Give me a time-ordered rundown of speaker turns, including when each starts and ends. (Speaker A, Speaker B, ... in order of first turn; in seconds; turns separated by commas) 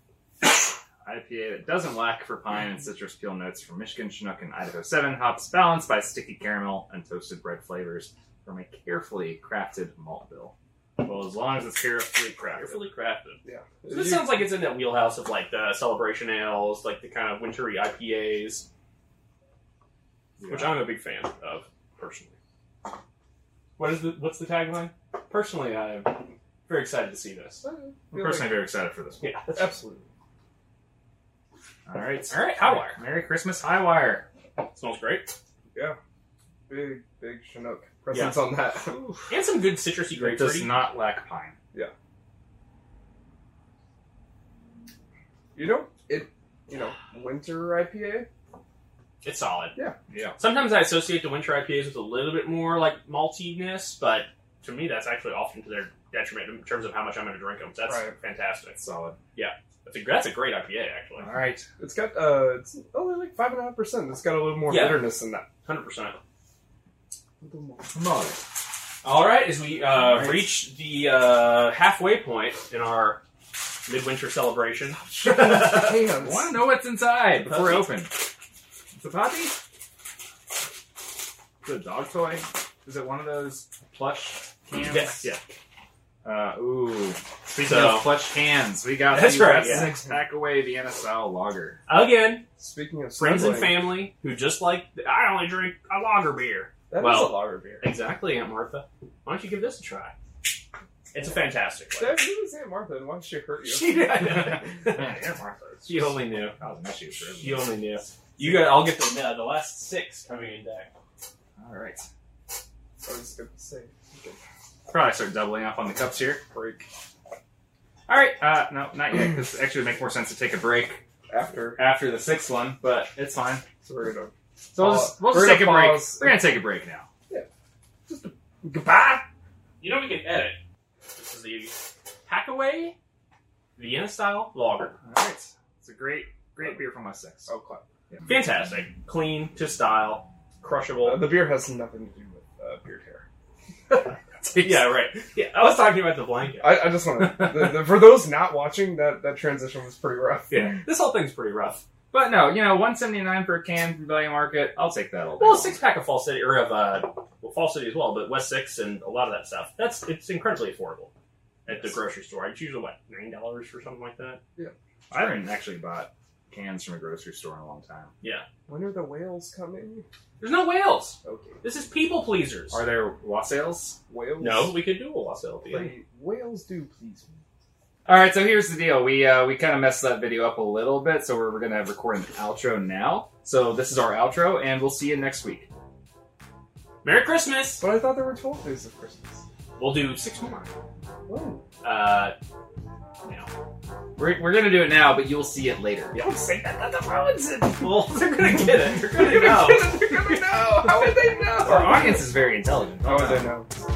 Speaker A: 0.4-12.9, Speaker B: 12.4-18.7, Speaker C: 13.4-14.5, Speaker A: 20.4-20.8, Speaker B: 20.5-22.4, Speaker B: 23.8-27.6, Speaker C: 27.6-28.6, Speaker A: 28.1-29.4, Speaker B: 29.2-29.7, Speaker C: 29.6-30.1, Speaker A: 31.9-34.2, Speaker B: 32.3-33.0, Speaker B: 34.7-35.3, Speaker C: 36.7-39.2, Speaker B: 38.1-38.4, Speaker B: 39.3-40.8, Speaker A: 40.1-41.5, Speaker C: 45.5-48.3, Speaker B: 49.2-49.8, Speaker A: 50.1-50.4, Speaker B: 50.4-58.8, Speaker C: 57.8-58.1, Speaker A: 58.8-59.2, Speaker B: 59.4-61.3, Speaker A: 61.2-61.7, Speaker C: 61.8-65.5, Speaker B: 64.7-66.2, Speaker C: 67.4-67.9, Speaker A: 67.9-68.4, Speaker B: 69.0-73.2, Speaker A: 69.9-70.5, Speaker B: 73.8-76.1, Speaker C: 75.2-76.5, Speaker A: 75.2-78.2, Speaker B: 77.4-77.9, Speaker A: 78.9-79.6, Speaker A: 81.6-85.3, Speaker B: 84.8-85.4, Speaker A: 86.2-91.8, Speaker B: 87.5-88.1, Speaker B: 89.1-90.0, Speaker B: 91.9-92.4, Speaker C: 92.6-94.0, Speaker B: 93.2-100.1, Speaker C: 96.9-97.9, Speaker B: 101.1-102.2, Speaker C: 102.0-104.1, Speaker B: 103.6-105.2, Speaker A: 104.1-107.7, Speaker B: 105.9-106.5, Speaker B: 107.4-110.9, Speaker C: 108.4-108.7, Speaker A: 111.6-112.0, Speaker C: 113.0-114.4, Speaker A: 114.9-116.4, Speaker C: 116.5-116.9, Speaker A: 118.1-121.0, Speaker C: 121.3-121.8, Speaker A: 121.8-123.6, Speaker C: 123.8-126.6, Speaker A: 124.7-127.1, Speaker C: 128.1-129.3, Speaker B: 129.8-130.6, Speaker B: 131.1-133.0, Speaker B: 133.8-135.0, Speaker A: 135.0-137.5, Speaker C: 137.5-137.8, Speaker B: 138.3-141.4, Speaker C: 141.0-143.2, Speaker A: 144.0-144.9, Speaker B: 144.6-146.9, Speaker C: 146.6-150.8, Speaker B: 150.5-151.8, Speaker A: 152.1-155.8, Speaker B: 155.4-161.1, Speaker B: 161.7-164.4, Speaker A: 165.1-168.1, Speaker B: 168.2-168.5, Speaker C: 168.7-170.0, Speaker B: 170.4-172.8, Speaker C: 171.2-171.6, Speaker A: 172.7-174.0, Speaker C: 174.1-174.8, Speaker B: 174.4-175.9, Speaker C: 175.7-177.4, Speaker A: 178.1-185.7, Speaker B: 187.0-187.8, Speaker C: 187.8-189.4, Speaker B: 189.8-190.8, Speaker C: 191.2-191.6, Speaker B: 191.8-192.3, Speaker B: 193.2-193.5, Speaker A: 194.2-196.2, Speaker C: 196.1-197.6, Speaker A: 197.1-197.8, Speaker B: 197.8-201.1, Speaker C: 198.9-202.3, Speaker A: 201.5-203.5, Speaker C: 203.0-203.7